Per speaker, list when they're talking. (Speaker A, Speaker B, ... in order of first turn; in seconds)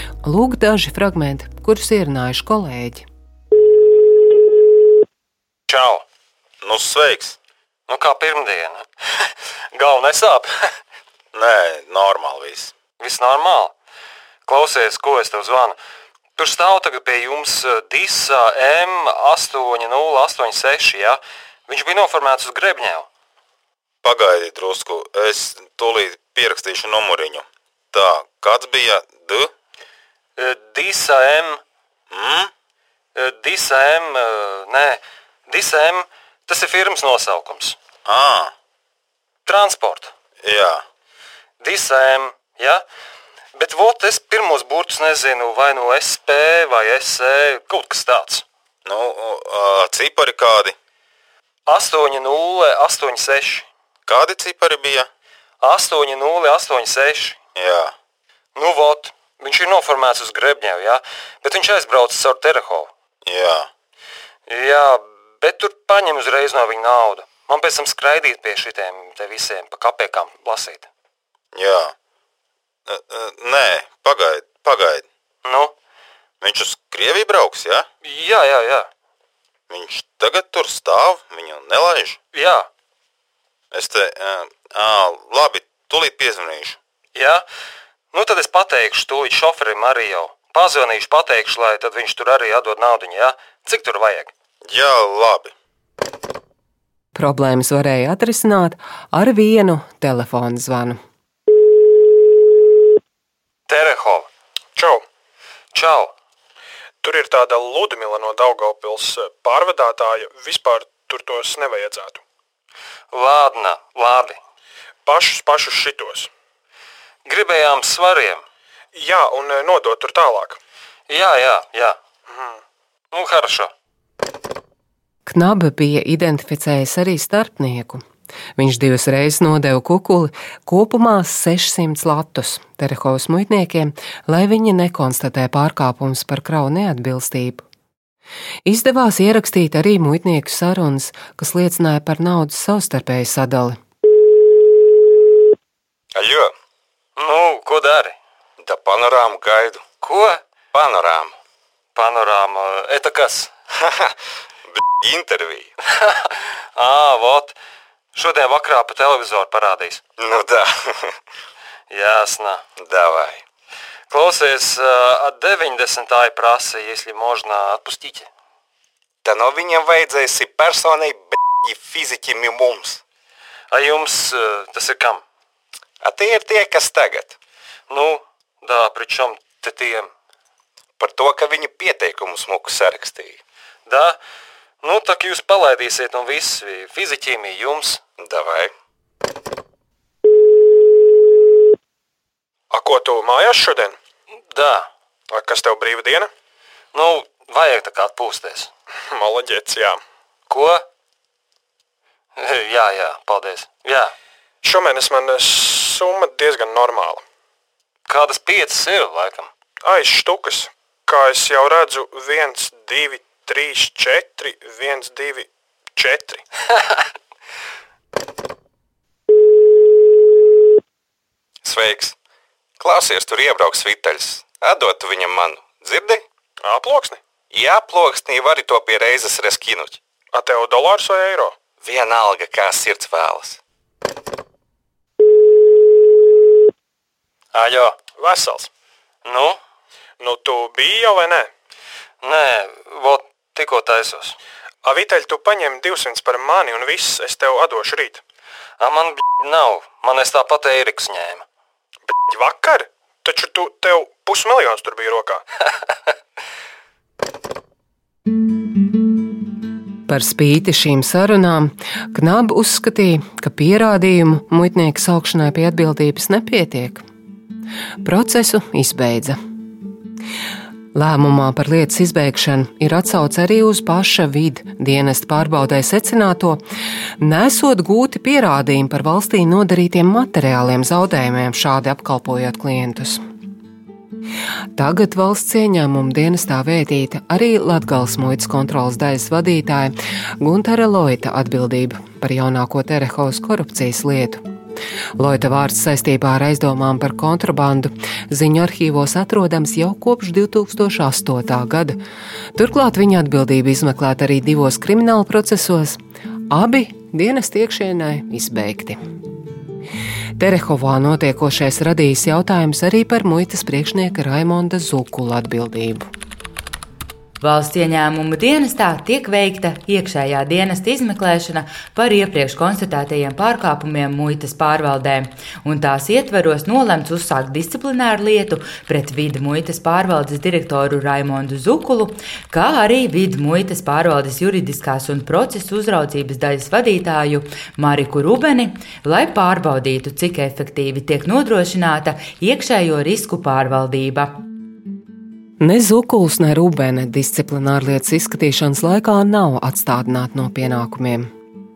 Speaker A: 0.2-3.1, 97.1-101.0, 125.2-128.0, 128.6-137.6, 138.7-143.8, 260.1-267.0, 268.0-269.4, 270.9-276.6, 277.2-283.2, 284.8-294.4, 295.2-302.0, 302.6-306.0, 306.5-309.0, 310.4-316.1, 345.6-351.3
Speaker B: 5.7-6.0, 7.9-8.8, 9.7-10.5, 13.0-13.7, 14.4-15.8, 16.4-23.1, 30.4-31.6, 33.1-37.8, 39.5-40.1, 41.6-42.8, 43.6-48.4, 51.6-53.7, 55.6-57.4, 58.5-62.9, 64.5-70.9, 75.4-75.7, 78.0-78.9, 82.3-82.7, 87.1-87.4, 88.1-94.3, 103.7-104.3, 105.7-106.1, 113.1-114.4, 117.2-118.4, 121.1-122.0, 123.1-123.7, 147.2-148.2, 150.0-150.4, 151.9-153.5, 156.1-157.6, 158.1-160.0, 161.9-162.6, 164.1-168.3, 173.7-175.2, 177.9-180.1, 183.9-184.2, 184.8-188.0, 194.5-194.9, 196.9-198.7, 200.5-200.8, 202.4-204.1, 208.1-209.5, 237.5-238.0, 239.2-239.6, 242.2-244.4, 248.8-251.4
Speaker C: 6.6-7.4, 11.3-12.7, 24.0-29.5, 32.1-32.5, 38.1-38.5, 40.4-40.8, 48.9-50.8, 54.1-55.1, 57.6-57.9, 63.2-63.7, 71.5-71.9, 72.9-75.1, 76.4-77.9, 79.7-82.2, 83.7-86.8, 94.7-95.5, 146.1-146.5, 148.6-149.9, 150.7-151.4, 153.9-154.1, 154.7-155.7, 160.2-161.1, 162.8-163.4, 169.2-173.0, 176.0-177.4, 181.0-183.4, 188.2-188.7, 221.6-222.2, 222.8-226.2, 227.5-230.0, 231.8-233.6
Speaker D: 104.8-105.0, 107.0-112.2, 115.1-116.3, 118.9-120.6, 122.3-122.6, 192.7-193.9, 195.3-196.3, 199.1-200.0, 204.6-207.2, 209.8-216.4, 226.6-227.2, 230.3-231.6, 238.2-238.7, 240.2-241.5, 244.8-248.2, 252.3-255.4
Speaker E: 317.4-344.4